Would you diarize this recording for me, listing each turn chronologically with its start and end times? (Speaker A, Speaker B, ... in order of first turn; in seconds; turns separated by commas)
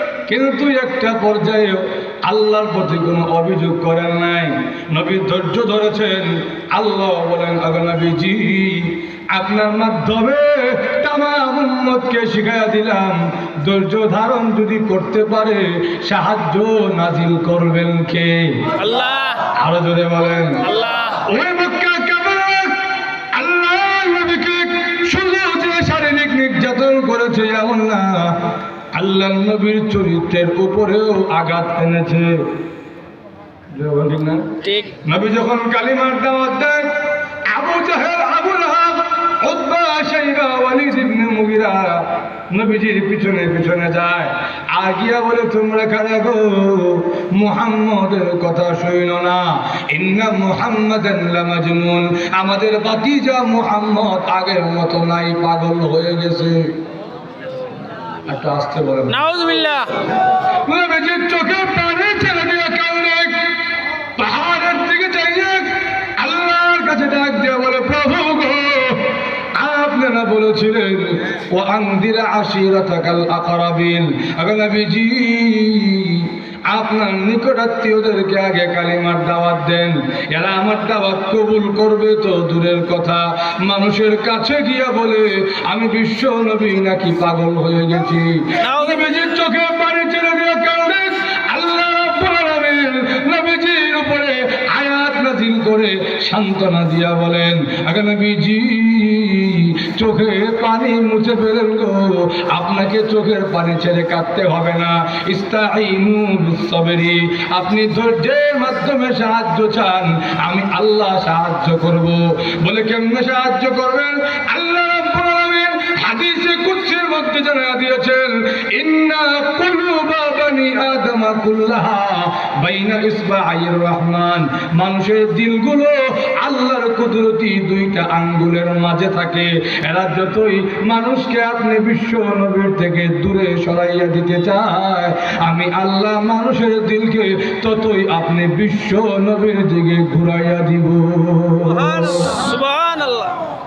Speaker A: 0.2-18.7, Speaker B: 18.8-19.5, Speaker A: 19.4-28.4, Speaker B: 20.7-21.2, Speaker A: 28.9-32.4, Speaker A: 33.7-36.9, Speaker B: 34.6-34.9, Speaker A: 37.5-56.7, Speaker A: 58.3-59.2, Speaker B: 59.1-60.0, Speaker A: 60.6-63.4, Speaker A: 64.2-142.4, Speaker B: 88.6-89.0, Speaker B: 141.7-143.4